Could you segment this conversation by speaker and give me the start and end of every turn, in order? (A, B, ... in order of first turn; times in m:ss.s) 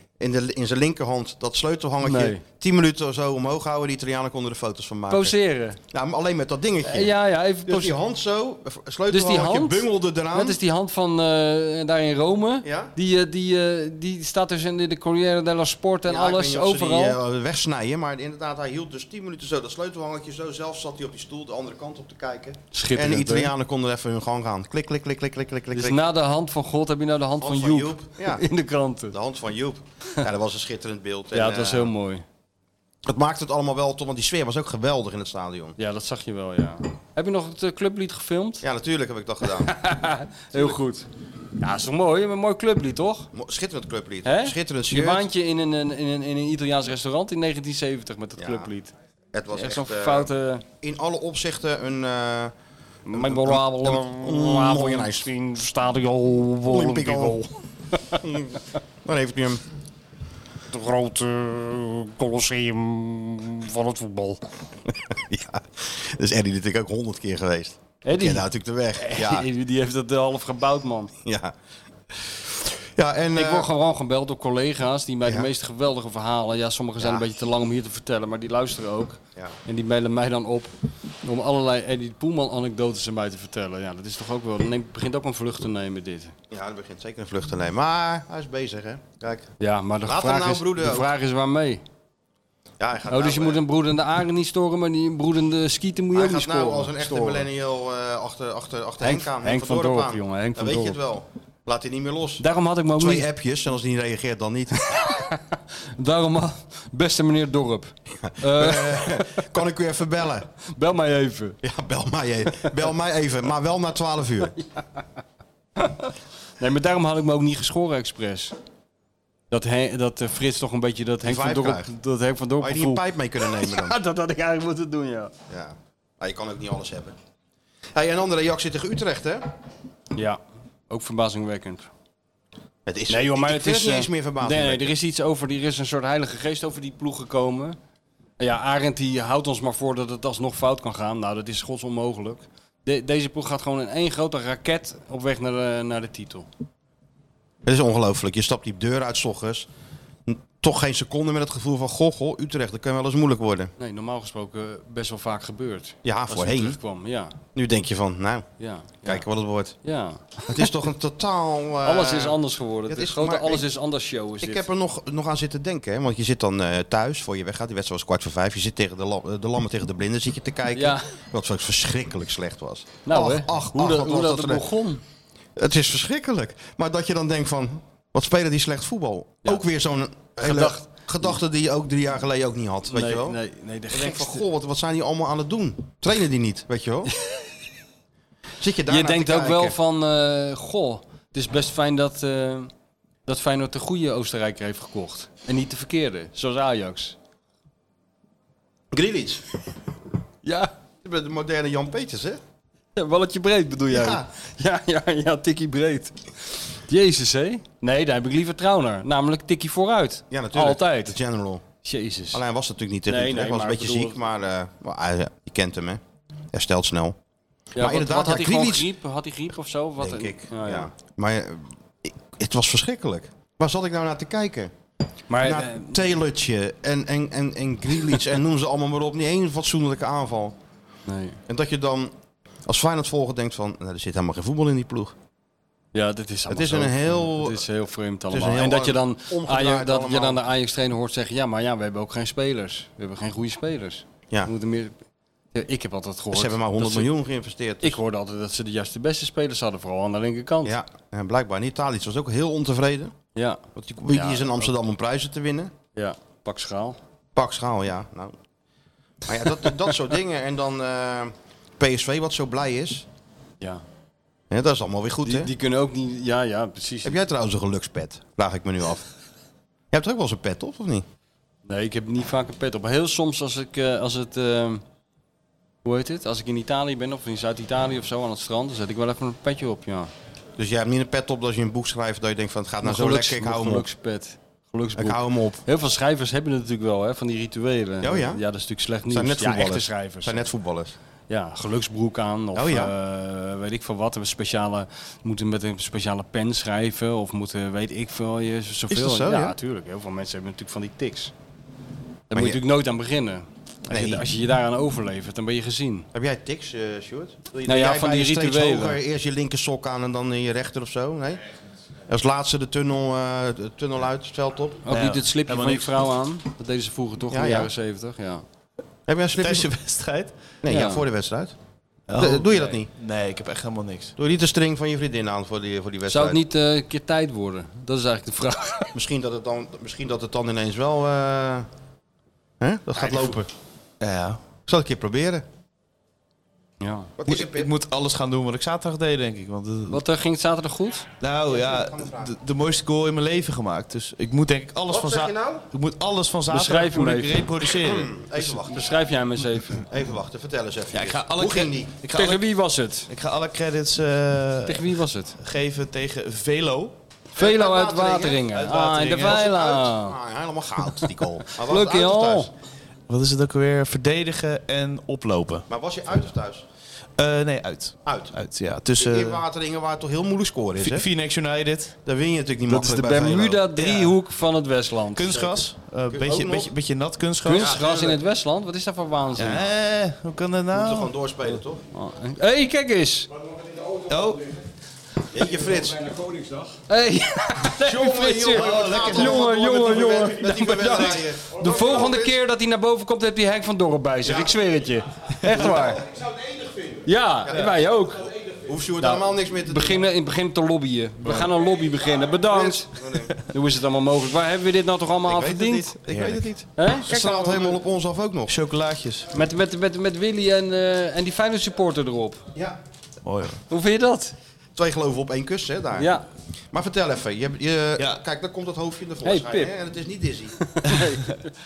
0:00.2-0:05.4 A
0:02.0-0:02.4 B
0:05.1-0:05.8 B
0:05.9-0:07.1 A
0:06.8-0:07.9 B
0:07.6-0:10.6 A
0:09.1-0:17.2 B
0:12.6-0:12.9 A
0:16.1-0:26.0 A
0:22.7-0:23.5 B
0:25.7-0:29.1 B
0:27.4-0:28.4 A
0:29.1-0:31.9 A
0:31.3-0:32.2 B
0:33.0-0:35.8 A
0:35.8-0:38.6 B
0:38.6-0:39.7 A
0:39.4-0:41.0 B
0:41.6-0:43.3 B
0:43.3-0:45.3 A
0:44.2-0:48.9 B
0:48.4-0:48.7 A
0:49.3-0:52.5 A
0:49.5-0:50.6 B
0:53.0-0:57.5 B
0:53.1-0:55.3 A
0:56.7-0:57.4 A
0:58.2-0:59.6 A
1:00.7-1:04.4 B
1:05.0-1:09.5 A
1:08.0-1:08.4 B
1:09.0-1:11.1 B
1:11.2-1:11.5 A
1:12.1-1:13.7 A
1:13.3-1:20.7 B
1:17.0-1:17.2 A
1:21.2-1:26.3 B
1:26.5-1:29.5 A
1:29.6-1:31.8 B
1:30.0-1:31.1 A
1:32.8-1:33.6 A
1:33.1-1:37.4 B
1:36.1-1:42.4 A
1:39.0-1:41.0 B
1:42.4-1:43.3 B
1:43.0-1:45.0 A
1:44.8-1:49.4 B
1:48.2-1:50.5 A
1:50.7-1:51.6 B
1:51.6-1:54.5 A
1:55.8-1:58.5 B
1:59.5-2:05.3 B
2:01.2-2:01.9 A
2:02.6-2:04.0 A
2:05.5-2:07.1 A
2:07.9-2:09.5 A
2:10.9-2:11.9 B
2:12.8-2:14.9 A
2:13.1-2:17.8 B
2:18.4-2:26.5 B
2:27.6-2:29.7 A
2:30.3-2:33.7 A
2:33.8-2:37.3 B
2:36.0-2:36.8 A
2:37.5-2:38.4 A
2:38.6-2:39.2 B
2:39.0-2:39.7 A
2:39.8-2:40.6 B
2:40.5-2:43.6 A
2:41.8-2:44.6 B
2:44.4-2:54.6 A
2:50.7-2:51.0 B
2:53.0-2:55.0 B
2:55.6-3:03.4 A
3:00.4-3:00.8 B
3:02.9-3:04.4 B
3:03.9-3:07.1 A
3:08.6-3:09.8 A
3:08.9-3:12.7 B
3:13.3-3:17.2 B
3:18.9-3:19.4 A
3:20.4-3:20.7 B
3:21.0-3:22.4 A
3:23.0-3:26.2 B
3:23.9-3:24.2 A
3:26.7-3:31.2 B
3:30.3-3:31.6 A
3:31.8-3:32.4 B
3:32.3-3:36.0 A
3:33.1-3:34.2 B
3:36.5-3:37.2 A
3:37.8-3:40.9 B
3:37.8-3:38.9 A
3:40.0-3:44.7 A
3:45.3-3:45.9 B
3:45.4-3:50.5 A
3:51.1-3:51.4 B
3:51.5-3:52.1 A
3:52.6-3:55.1 A
3:55.9-4:04.9 B
3:56.5-3:57.6 A
3:58.3-4:00.4 A
4:05.5-4:07.1 B
4:06.3-4:08.0 A
4:07.8-4:10.7 B
4:10.6-4:13.1 A
4:13.3-4:14.7 B
4:13.8-4:15.7 A
4:15.9-4:17.0 B
4:17.3-4:18.4 A
4:19.2-4:23.0 A
4:24.5-4:25.5 A
4:25.2-4:27.2 B
4:27.0-4:29.0 A
4:29.9-4:31.0 A
4:31.7-4:34.8 B
4:35.8-4:40.1 B
4:40.6-4:43.9 A
4:42.8-4:50.5 B
4:45.0-4:45.6 A
4:48.0-4:48.4 A
4:49.1-4:50.9 A
4:51.3-5:01.3 B
4:52.5-4:52.9 A
4:58.9-4:59.5 A
5:02.3-5:06.1 B
5:02.3-5:02.6 A
5:03.9-5:04.2 A
5:06.1-5:11.4 A
5:07.6-5:09.0 B
5:12.1-5:14.8 A
5:14.8-5:18.4 B
5:14.9-5:16.0 C
5:17.3-5:17.7 A
5:19.1-5:19.7 A
5:19.4-5:20.3 C
5:20.6-5:21.5 A
5:20.7-5:21.0 B
5:22.1-5:24.1 C
5:22.2-5:22.9 A
5:24.2-5:26.4 A
5:26.1-5:28.9 B
5:28.9-5:31.7 A
5:32.6-5:33.5 A
5:34.0-5:34.4 C
5:34.7-5:35.4 A
5:36.8-5:37.1 B
5:37.2-5:37.7 A
5:37.2-5:40.0 C
5:39.9-5:41.1 B
5:41.2-5:48.1 C
5:41.4-5:42.3 A
5:44.9-5:45.6 A
5:46.5-5:47.4 B
5:47.8-5:48.9 A
5:48.4-5:49.8 B
5:49.8-5:52.0 A
5:50.9-5:52.4 C
5:52.1-5:53.1 B
5:53.1-5:56.9 C
5:54.6-5:55.3 B
5:57.3-6:00.1 B
5:57.4-5:58.6 A
5:58.5-5:59.3 C
5:59.1-6:02.5 A
6:01.0-6:02.5 B
6:03.1-6:05.7 C
6:05.7-6:06.6 A
6:07.2-6:09.4 C
6:08.0-6:08.3 A
6:09.0-6:11.1 A
6:10.8-6:11.9 C
6:12.0-6:13.7 A
6:12.7-6:15.6 B
6:13.8-6:14.1 C
6:15.2-6:17.7 C
6:16.1-6:16.7 A
6:17.4-6:19.7 B
6:17.5-6:18.2 A
6:19.4-6:21.1 C
6:20.7-6:21.8 A
6:21.9-6:23.3 B
6:24.0-6:24.5 C
6:25.3-6:26.2 A
6:26.9-6:36.0 B
6:27.8-6:32.4 A
6:28.5-6:29.5 C
6:37.0-6:38.2 B
6:38.6-6:40.0 A
6:39.0-6:45.9 B
6:42.5-6:43.3 A
6:45.2-6:48.6 A
6:46.1-6:46.5 C
6:46.8-6:47.8 B
6:48.5-6:49.3 C
6:49.3-6:52.4 B
6:53.2-6:53.6 C
6:53.7-6:54.3 B
6:54.8-6:56.1 A
6:56.0-6:56.2 B
6:56.7-7:00.6 A
6:59.2-6:59.7 B
7:00.7-7:01.5 B